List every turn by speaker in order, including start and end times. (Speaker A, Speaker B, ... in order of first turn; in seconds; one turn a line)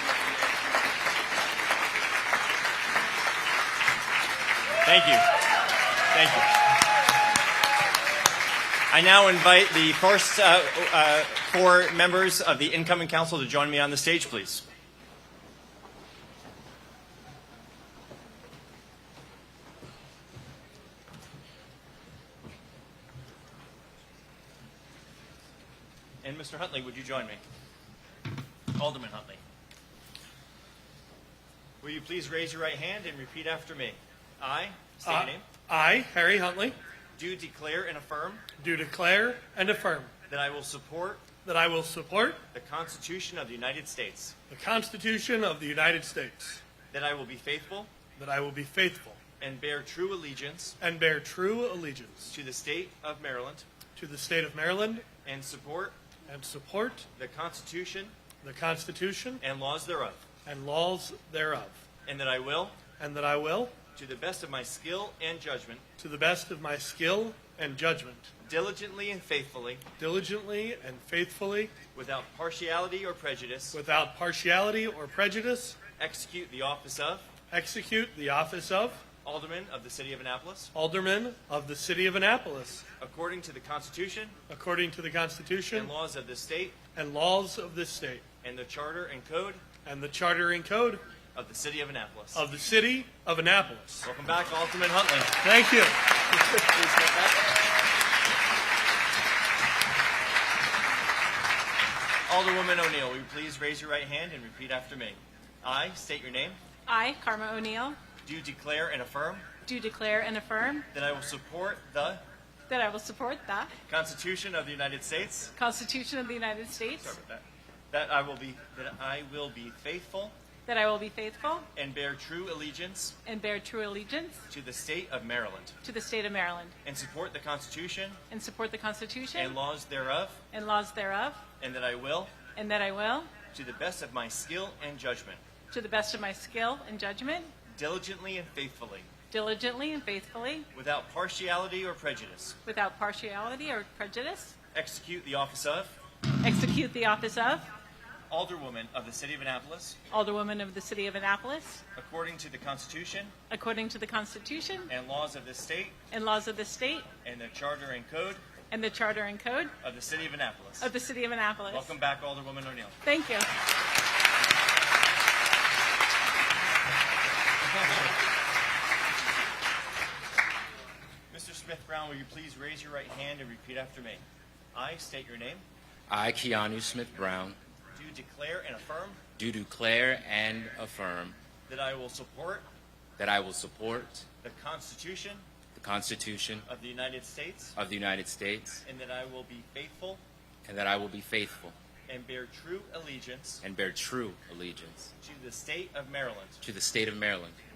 Speaker A: 4.8-5.3
Speaker A: 6.1-6.5
Speaker A: 8.9-14.7
Speaker A: 26.2-27.4
Speaker A: 28.7-29.4
Speaker A: 31.8-35.5
Speaker B: 35.0-36.8
Speaker A: 37.2-38.4
Speaker B: 38.6-40.1
Speaker A: 40.3-41.3
Speaker B: 41.4-42.4
Speaker A: 42.5-44.4
Speaker B: 44.5-46.6
Speaker A: 46.9-47.9
Speaker B: 48.2-49.2
Speaker A: 49.4-50.8
Speaker B: 50.8-52.3
Speaker A: 52.3-53.7
Speaker B: 54.0-55.1
Speaker A: 55.2-56.0
Speaker B: 56.3-57.1
Speaker A: 57.2-58.1
Speaker B: 58.4-59.4
Speaker A: 59.4-60.2
Speaker B: 60.5-61.8
Speaker A: 62.1-62.8
Speaker B: 63.0-63.8
Speaker A: 64.0-65.8
Speaker B: 66.0-68.3
Speaker A: 68.4-69.8
Speaker B: 70.0-71.7
Speaker A: 71.9-73.8
Speaker B: 73.7-75.8
Speaker A: 76.0-77.3
Speaker B: 77.5-79.0
Speaker A: 79.2-80.7
Speaker B: 80.8-82.8
Speaker A: 83.0-84.4
Speaker B: 84.5-85.9
Speaker A: 85.7-86.8
Speaker B: 87.0-88.2
Speaker A: 88.4-89.6
Speaker B: 89.8-91.0
Speaker A: 91.3-92.4
Speaker B: 92.3-94.1
Speaker A: 94.0-95.4
Speaker B: 95.4-96.0
Speaker A: 96.7-97.4
Speaker A: 102.3-106.6
Speaker C: 106.9-108.0
Speaker A: 108.2-109.5
Speaker C: 109.7-110.9
Speaker A: 110.9-112.2
Speaker C: 112.7-113.7
Speaker A: 113.9-115.5
Speaker C: 115.5-117.2
Speaker A: 117.0-120.3
Speaker C: 120.7-121.7
Speaker A: 121.8-123.2
Speaker C: 123.3-124.4
Speaker A: 124.5-125.8
Speaker C: 125.8-126.7
Speaker A: 126.8-128.2
Speaker C: 128.3-129.6
Speaker A: 129.3-130.4
Speaker C: 130.5-131.4
Speaker A: 131.6-132.4
Speaker C: 132.5-133.3
Speaker A: 133.5-135.4
Speaker C: 135.7-137.5
Speaker A: 137.7-139.1
Speaker C: 139.3-140.7
Speaker A: 140.7-142.6
Speaker C: 142.7-144.5
Speaker A: 144.7-145.9
Speaker C: 146.4-147.7
Speaker A: 148.3-150.0
Speaker C: 150.1-151.8
Speaker A: 152.0-153.3
Speaker C: 153.5-154.9
Speaker A: 154.9-156.0
Speaker C: 156.1-157.1
Speaker A: 157.2-158.4
Speaker C: 158.7-159.7
Speaker A: 159.8-160.9
Speaker C: 160.8-161.9
Speaker A: 161.7-163.0
Speaker C: 163.0-163.5
Speaker A: 171.3-174.2
Speaker A: 174.7-175.6
Speaker D: 176.1-177.6
Speaker A: 177.9-179.2
Speaker D: 179.4-181.4
Speaker A: 181.7-182.7
Speaker D: 183.2-184.2
Speaker A: 184.4-185.4
Speaker D: 185.7-186.7
Speaker A: 186.7-187.8
Speaker D: 187.8-188.8
Speaker A: 188.8-190.2
Speaker D: 190.7-191.8
Speaker A: 192.1-193.7
Speaker D: 193.6-195.1
Speaker A: 195.2-196.6
Speaker D: 196.6-197.6